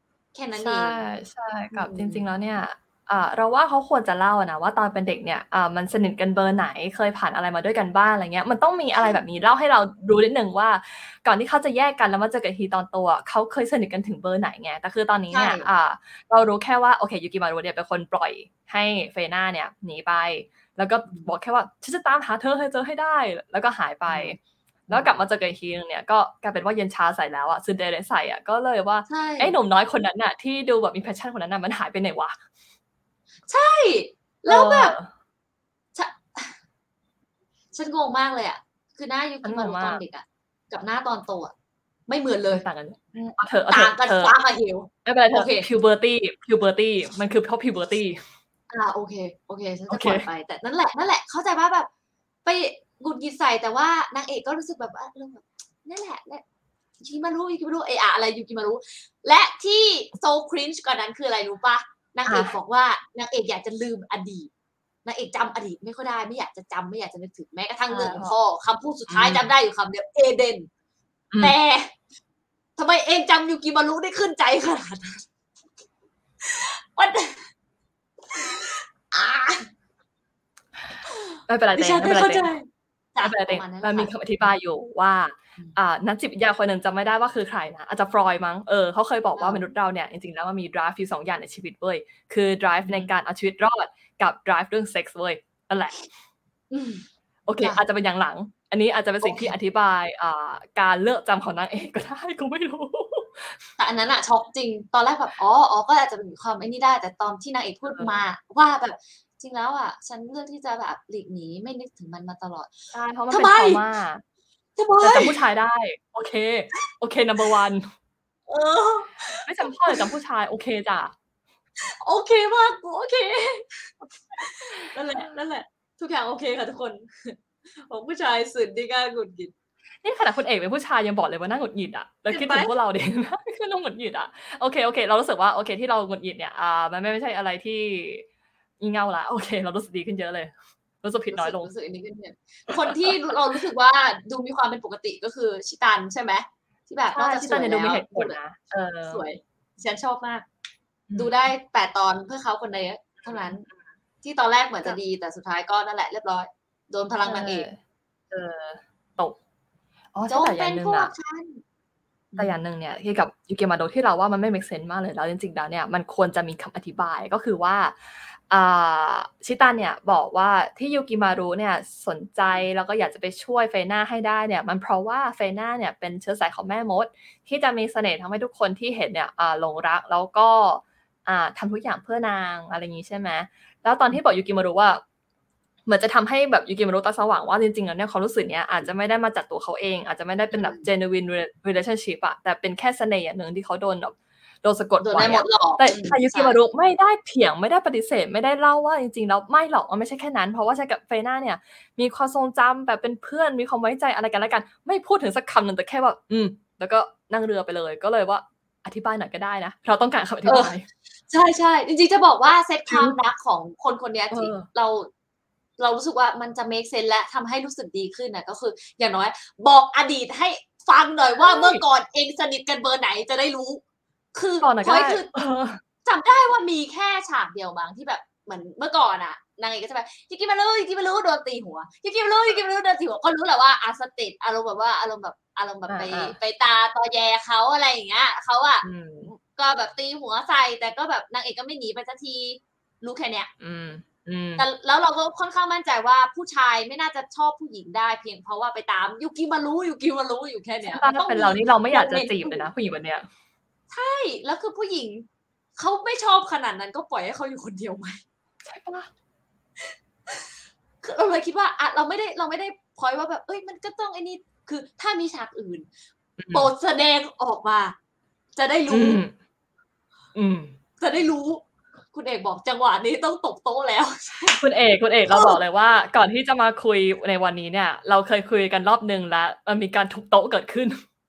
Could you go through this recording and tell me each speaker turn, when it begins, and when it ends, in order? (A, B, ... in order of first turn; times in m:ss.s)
0:00.4-0:01.0 A
0:00.6-0:24.4 B
0:01.7-0:02.3 A
0:15.3-0:15.7 A
0:21.1-0:21.3 A
0:24.1-0:24.4 A
0:24.9-0:25.2 A
0:24.9-0:32.4 B
0:29.1-0:29.6 A
0:33.5-0:35.0 A
0:34.5-0:35.1 B
0:36.0-0:36.6 A
0:37.7-0:41.5 A
0:39.4-0:40.0 B
0:42.1-0:45.7 A
0:42.5-0:44.4 B
0:45.0-0:48.2 B
0:48.7-0:51.9 A
0:49.9-0:50.3 B
0:52.4-0:56.4 A
0:57.0-1:04.5 A
1:02.3-1:02.6 B
1:05.0-1:10.7 A
1:07.9-1:08.4 B
1:09.1-1:09.5 B
1:11.4-1:12.0 A
1:12.8-1:15.3 A
1:16.4-1:17.5 A
1:18.3-1:19.7 A
1:21.1-1:24.1 A
1:21.5-1:22.5 B
1:23.2-1:36.1 B
1:29.4-1:29.7 A
1:32.8-1:33.1 A
1:36.7-1:37.0 A
1:37.5-1:43.6 B
1:39.2-1:39.5 A
1:43.8-1:52.7 A
1:52.9-1:54.2 B
1:53.3-1:53.8 A
1:54.8-1:55.4 A
1:55.0-1:57.9 B
1:58.5-2:00.1 A
1:59.4-2:01.2 B
2:01.9-2:09.5 A
2:10.0-2:18.3 B
2:12.3-2:12.7 A
2:18.8-2:21.7 B
2:21.3-2:28.4 A
2:22.7-2:23.1 B
2:27.1-2:29.2 B
2:29.1-2:30.5 A
2:31.1-2:31.4 B
2:31.2-2:33.7 A
2:33.2-2:33.7 B
2:34.2-2:37.7 A
2:37.2-2:37.8 B
2:38.3-2:39.4 B
2:40.1-2:41.1 B
2:40.3-2:41.6 A
2:42.4-3:05.0 B
3:05.9-3:30.9 B
3:10.5-3:10.9 A
3:15.0-3:16.6 A
3:30.4-3:30.7 A
3:31.3-3:35.1 A
3:32.9-3:33.2 B
3:34.3-3:34.7 B
3:35.8-3:43.8 A
3:41.4-3:41.8 B
3:44.4-3:45.4 A
3:44.6-3:45.8 B
3:46.0-4:03.5 A
3:55.9-3:56.4 B
3:58.8-3:59.3 B
4:03.6-4:04.6 B
4:04.6-4:12.6 A
4:10.9-4:13.3 B
4:13.9-4:18.2 A
4:18.6-4:19.1 B
4:19.8-4:20.5 A
4:21.0-4:25.9 A
4:26.4-4:26.7 B
4:26.5-4:28.0 A
4:28.6-4:29.2 A
4:28.9-4:29.3 B
4:30.3-4:30.7 B
4:31.0-4:34.6 A
4:34.6-4:41.0 B
4:35.3-4:35.6 A